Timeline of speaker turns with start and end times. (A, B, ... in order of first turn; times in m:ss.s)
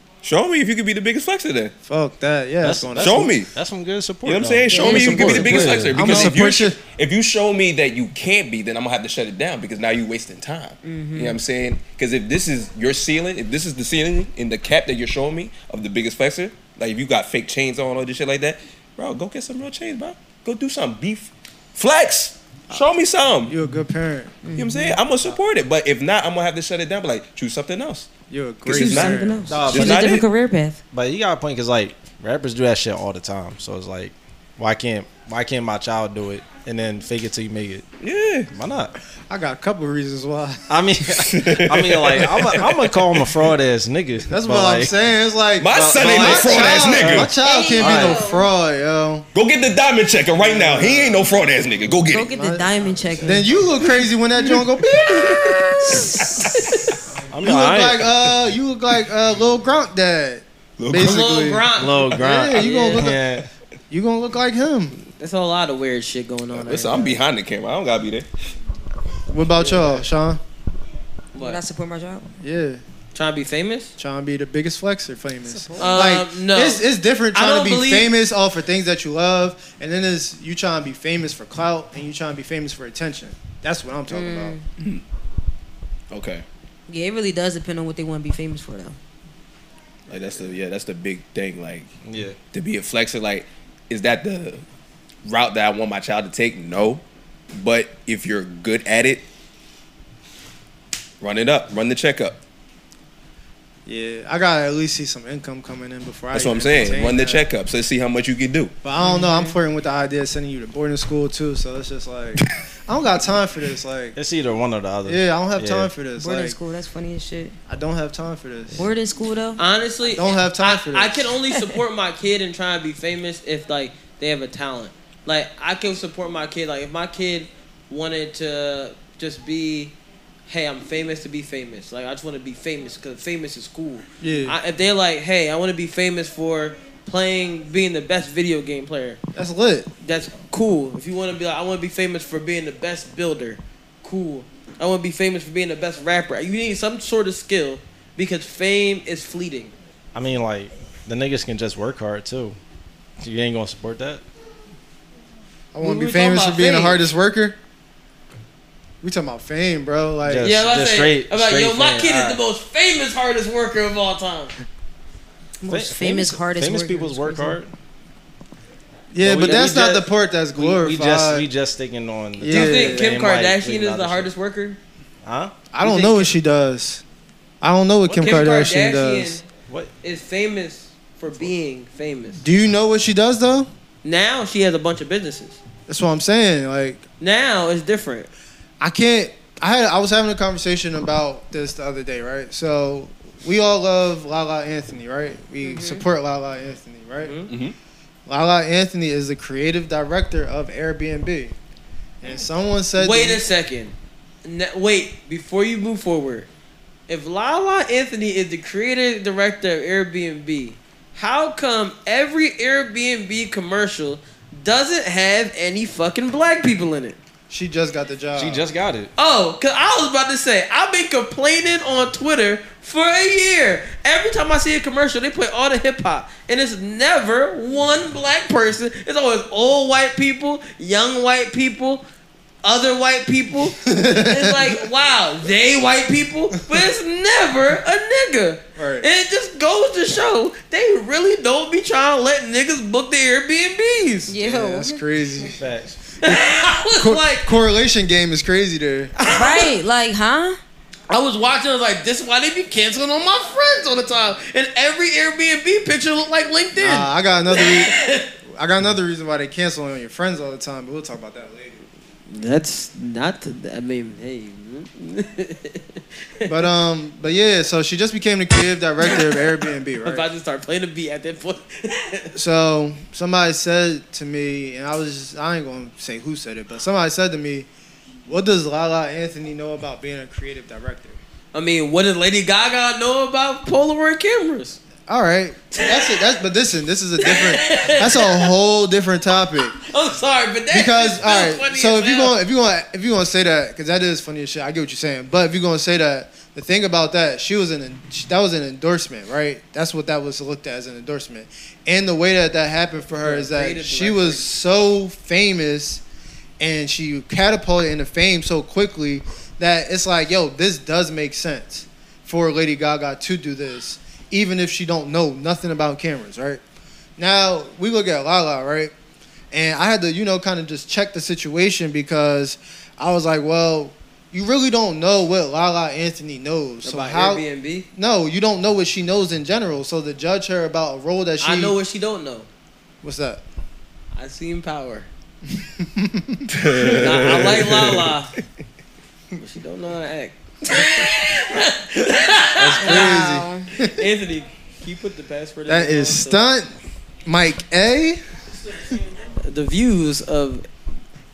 0:00.2-0:01.7 A
0:01.8-0:03.4 B
0:02.6-0:06.3 C
0:03.0-0:03.5 A
0:04.2-0:23.5 A
0:04.7-0:05.8 D
0:05.9-0:06.8 B
0:10.8-0:11.4 D
0:23.5-0:24.4 B
0:24.4-0:25.0 D
0:24.6-0:28.1 A
0:28.3-0:29.5 B
0:28.7-0:30.2 A
0:28.7-0:30.8 D
0:29.5-0:30.2 C
0:30.9-0:37.8 C
0:38.0-0:38.5 A
0:38.5-0:39.0 C
0:39.3-0:40.7 B
0:40.7-0:45.0 C
0:41.2-0:43.2 A
0:44.3-0:49.3 B
0:45.6-0:47.3 A
0:45.7-0:48.2 C
0:47.4-0:48.5 D
0:49.4-0:52.3 A
0:50.4-0:51.4 B
0:52.1-0:53.6 D
0:52.3-0:55.6 B
0:54.4-0:56.9 A
0:55.8-0:56.5 D
0:56.6-0:56.8 E
0:57.3-0:58.1 C
0:57.4-1:03.2 B
1:00.8-1:01.3 A
1:01.0-1:03.0 E
1:01.8-1:03.5 C
1:03.9-1:05.0 B
1:05.2-1:07.2 E
1:06.5-1:08.3 A
1:09.3-1:10.4 B
1:09.6-1:10.0 E
1:11.3-1:11.6 E
1:11.4-1:12.3 D
1:12.4-1:12.8 B
1:13.1-1:13.9 E
1:14.0-1:24.6 B
1:15.5-1:15.9 D
1:15.8-1:16.8 E
1:17.3-1:18.1 E
1:24.1-1:24.6 D
1:26.1-1:26.4 A
1:26.9-1:29.0 D
1:30.1-1:30.5 B
1:30.1-1:31.9 A
1:32.0-1:32.4 C
1:32.5-1:34.6 A
1:35.2-1:37.0 A
1:37.5-1:39.2 A
1:41.2-1:42.4 A
1:43.9-1:47.4 B
1:46.3-1:48.7 A
1:48.8-1:54.2 B
1:49.0-1:49.6 D
1:54.2-1:55.9 C
1:55.0-1:56.6 B
1:56.2-1:57.6 D
1:57.7-1:58.9 B
1:58.8-1:59.6 D
1:59.6-2:09.9 E
2:00.1-2:01.3 B
2:10.5-2:19.2 E
2:14.2-2:14.6 B
2:19.4-2:19.9 B
2:20.0-2:29.7 E
2:30.1-2:32.6 C
2:33.2-2:34.2 C
2:35.7-2:37.6 B
2:35.8-2:37.0 E
2:39.0-2:40.5 B
2:40.2-2:42.4 C
2:40.4-2:44.5 E
2:45.6-2:47.6 D
2:45.7-2:47.7 C
2:49.1-2:51.5 B
2:49.2-2:50.0 C
2:49.3-2:50.0 E
2:50.6-2:54.3 C
2:52.4-2:53.1 B
2:52.5-2:54.8 E
2:55.2-2:55.5 C
2:55.7-2:57.0 B
2:55.8-2:56.3 E
2:57.6-2:59.4 B
2:58.1-2:59.5 E
2:58.1-2:58.4 C
3:00.0-3:02.4 E
3:02.4-3:03.7 B
3:04.0-3:05.6 E
3:05.9-3:07.0 B
3:07.2-3:08.3 E
3:08.8-3:17.3 B
3:15.6-3:16.0 D
3:17.2-3:17.5 E
3:17.5-3:17.8 A
3:18.3-3:21.6 B
3:22.2-3:23.4 B
3:23.0-3:26.5 E
3:27.1-3:37.2 E
3:37.5-3:38.7 B
3:38.4-3:39.1 C
3:39.2-3:52.0 E
3:52.6-4:04.3 E
3:53.9-3:54.8 B
3:58.8-3:59.1 B
4:04.3-4:05.0 D
4:04.4-4:05.6 B
4:05.4-4:06.0 C
4:06.2-4:07.5 E
4:06.2-4:09.1 B
4:09.2-4:09.7 E
4:09.3-4:10.6 D
4:11.1-4:18.3 E
4:16.8-4:17.9 B
4:18.5-4:21.8 B
4:22.3-4:26.5 E
4:26.5-4:30.3 B
4:29.0-4:29.4 E
4:30.0-4:32.3 E
4:32.3-4:37.7 B
4:38.3-4:41.2 B
4:41.5-4:44.8 E
4:45.1-4:49.8 B
4:45.7-4:46.3 E
4:47.2-4:48.5 E
4:49.7-4:52.4 E
4:50.7-5:06.0 B
5:03.2-5:04.4 E
5:06.6-5:16.6 B
5:17.2-5:18.9 B
5:19.5-5:31.8 B
5:26.8-5:27.9 E
5:31.4-5:32.5 E
5:33.0-5:33.4 B
5:34.2-5:35.1 E
5:35.5-5:37.0 B
5:36.5-5:38.1 A
5:37.0-5:38.3 E
5:39.4-5:43.2 E
5:42.6-5:44.0 B
5:42.8-5:43.7 D
5:43.9-5:46.4 E
5:45.7-5:46.7 B
5:47.2-5:48.2 B
5:49.4-5:50.7 E